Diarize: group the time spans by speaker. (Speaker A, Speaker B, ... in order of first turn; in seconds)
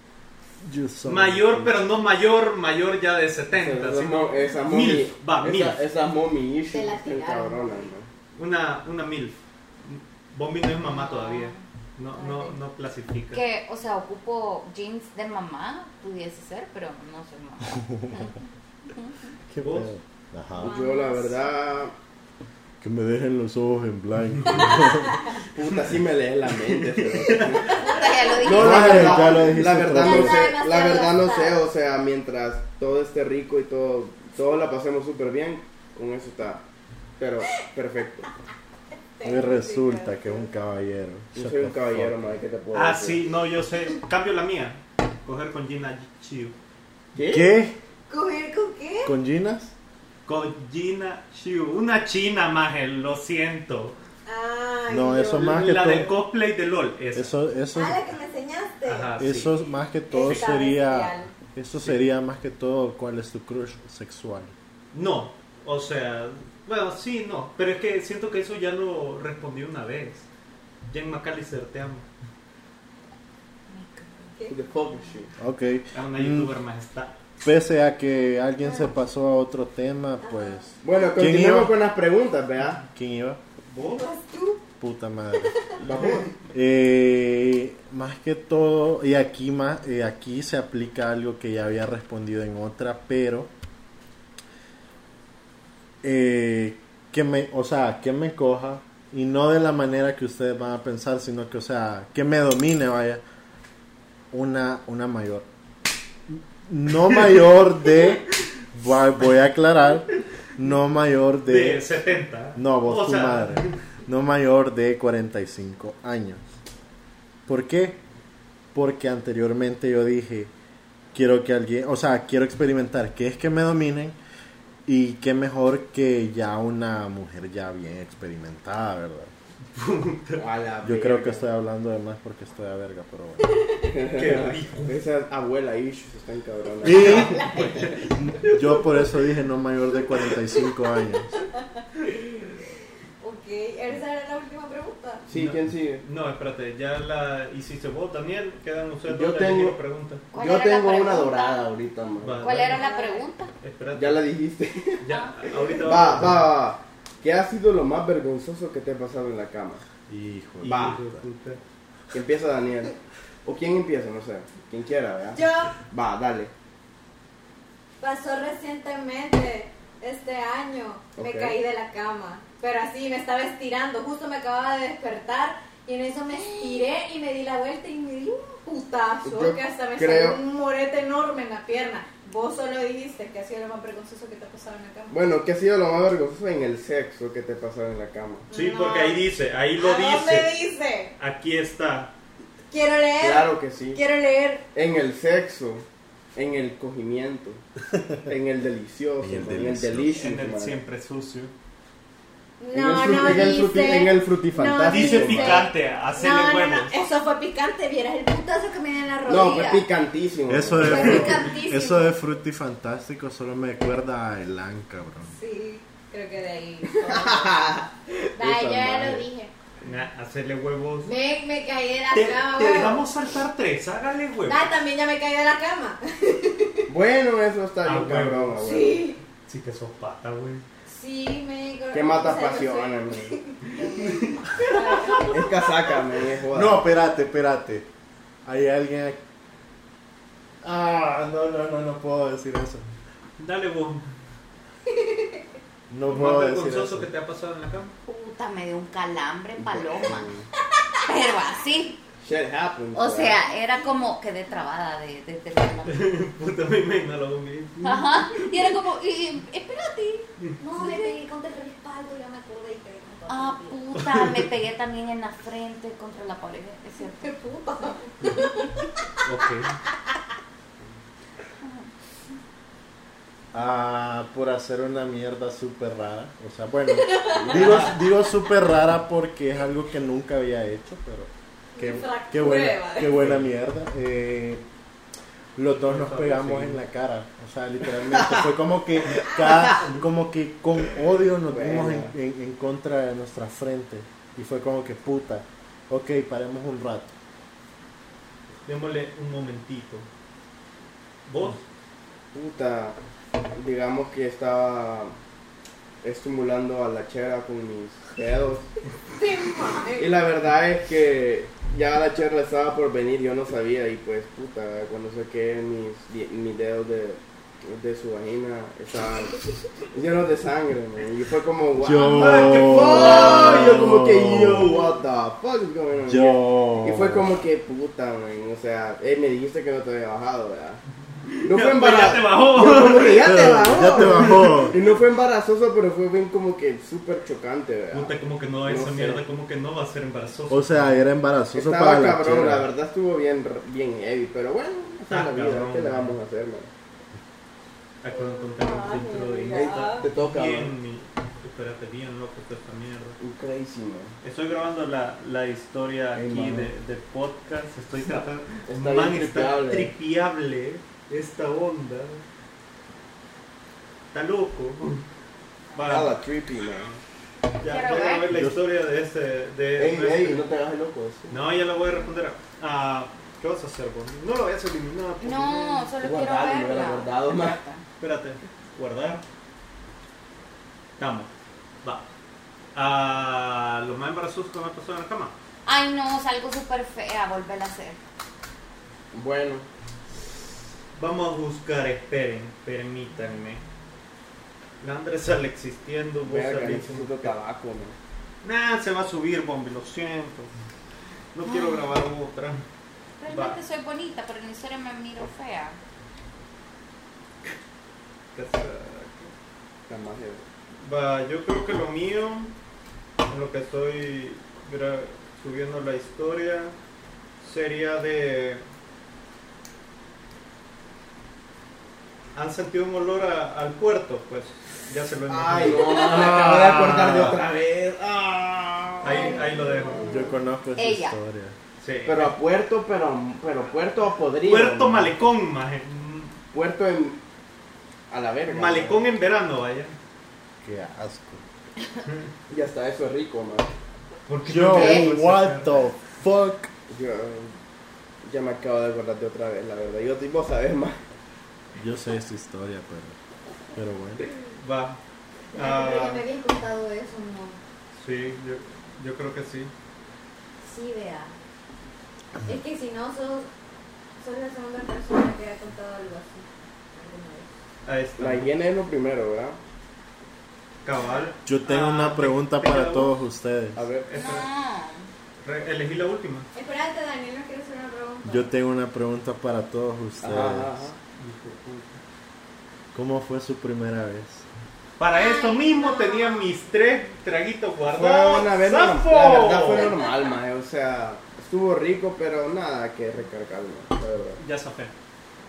Speaker A: 0.6-1.9, 17.8-18.3, 19.5-20.7, 22.8-25.2, 28.5-30.6, 39.2-42.4, 47.2-47.8, 49.0-49.7, 54.9-56.1, 57.1-58.0, 59.2-64.5, 75.4-76.5, 77.4-81.8, 82.9-83.4, 84.8-85.5, 86.5-93.5, 96.0-103.2, 104.3-105.5, 106.3-111.8, 112.5-116.4, 117.5-118.0, 118.7-120.5, 121.1-124.2, 124.8-129.3, 130.8-133.7, 136.8-141.4, 160.1-161.2, 199.2-200.3, 210.5-215.3, 236.5-237.9, 238.4-239.2, 240.6-242.8, 245.9-247.1, 273.5-284.6, 285.6-297.1, 321.8-324.7, 326.1-327.4, 333.2-334.8, 340.5-342.7, 368.3-368.6, 426.1-427.4, 430.1-431.6, 440.6-441.4, 444.5-446.7, 451.7-453.1, 453.7-454.3, 471.4-473.9, 478.2-480.9, 482.9-484.4
Speaker B: 1.1-5.8, 8.3-13.4, 19.6-19.9, 26.6-28.0, 42.7-46.5, 50.2-54.0, 55.4-57.3, 58.9-59.5, 61.7-62.0, 64.9-70.3, 70.9-72.0, 75.9-77.1, 83.7-84.1, 85.8-86.2, 111.5-113.8, 129.7-130.4, 134.1-135.0, 136.9-138.1, 145.3-150.3, 152.2-152.8, 153.6-154.2, 155.0-156.5, 160.6-161.6, 188.5-190.5, 191.2-192.1, 200.1-201.5, 204.9-207.0, 219.8-221.1, 222.1-224.7, 227.8-228.7, 229.5-230.6, 233.8-235.3, 243.4-244.0, 246.1-247.9, 255.8-258.4, 263.9-264.4, 269.2-269.8, 277.4-277.9, 283.1-283.5, 285.7-286.8, 289.6-290.0, 298.6-300.1, 301.3-301.6, 322.1-325.0, 331.3-334.7, 337.9-340.8, 345.1-346.1, 348.0-353.2, 354.2-362.2, 364.1-365.0, 365.7-366.1, 367.6-370.4, 371.3-375.9, 378.0-379.2, 381.0-381.3, 382.7-385.3, 390.9-393.6, 394.8-397.3, 398.4-400.5, 401.3-402.6, 403.3-403.6, 408.3-409.3, 410.8-412.5, 413.3-416.8, 417.4-418.6, 422.4-427.4, 429.0-430.2, 431.8-432.4, 434.4-436.4, 438.5-439.9, 444.3-445.8, 454.6-455.0, 455.5-456.2, 457.9-459.7, 467.8-468.5, 470.8-473.1, 474.1-474.4, 475.4-476.5, 481.1-482.0, 485.0-489.9, 494.4-494.9
Speaker C: 3.5-8.1, 20.6-21.9, 25.5-36.6, 37.2-38.3, 41.3-43.2, 47.1-47.4, 74.5-75.3, 80.8-82.8, 85.8-86.3, 130.4-131.5, 133.8-137.8, 145.3-146.0, 149.1-149.8, 150.3-152.5, 153.9-155.0, 155.8-159.8, 160.6-161.0, 162.1-166.5, 171.2-171.6, 179.2-180.4, 185.1-188.5, 193.2-194.0, 194.7-197.6, 198.2-200.8, 202.7-205.7, 209.2-211.4, 217.1-219.2, 226.9-229.1, 231.9-233.4, 235.3-236.8, 249.6-250.5, 252.2-253.4, 277.4-277.9, 288.1-288.4, 291.4-292.1, 302.3-303.0, 303.5-305.1, 306.0-308.7, 310.0-319.4, 319.9-330.8, 331.4-338.1, 338.6-339.2, 341.5-346.7, 349.5-350.7, 353.2-354.1, 356.1-356.7, 358.7-359.9, 365.9-367.0, 369.8-371.4, 376.0-377.6, 389.1-389.6, 396.2-397.9, 409.9-410.4, 425.3-430.4, 432.0-435.1, 436.5-437.2, 438.1-439.0, 442.5-443.7, 446.9-447.6, 448.2-451.0, 468.2-469.6, 473.8-474.1, 480.2-481.0, 487.9-494.4
Speaker D: 6.7-7.9, 12.1-12.5, 20.6-21.4, 27.8-31.6, 39.2-40.5, 48.1-49.1, 54.2-55.7, 57.7-59.1, 60.1-61.3, 80.2-80.7, 83.8-84.6, 85.4-85.7, 133.4-133.8, 143.2-145.2, 152.7-153.3, 165.3-165.7, 168.0-185.2, 188.5-189.2, 189.8-191.1, 192.7-194.7, 202.6-209.9, 210.8-212.2, 215.2-219.5, 221.0-223.0, 224.4-226.9, 228.6-229.2, 230.8-236.0, 244.9-245.4, 253.6-254.1, 260.6-263.8, 267.2-268.9, 277.0-277.4, 281.7-283.2, 309.1-310.2, 348.1-350.1, 429.1-430.0, 455.5-457.6, 460.6-461.3, 462.4-463.5, 464.2-467.5, 470.9-471.3, 476.5-478.5, 485.1-486.5
Speaker E: 10.8-11.6, 13.3-19.1, 27.8-29.2, 73.7-74.4, 150.3-151.7, 152.4-153.5, 155.1-155.6, 222.2-222.7, 248.1-250.3, 251.1-252.0, 252.9-256.0, 257.8-261.2, 263.3-267.4, 271.6-271.9, 367.6-368.3, 375.2-377.8, 385.6-388.0, 401.5-401.8, 403.2-405.8, 430.8-431.1, 444.7-445.1, 474.1-475.1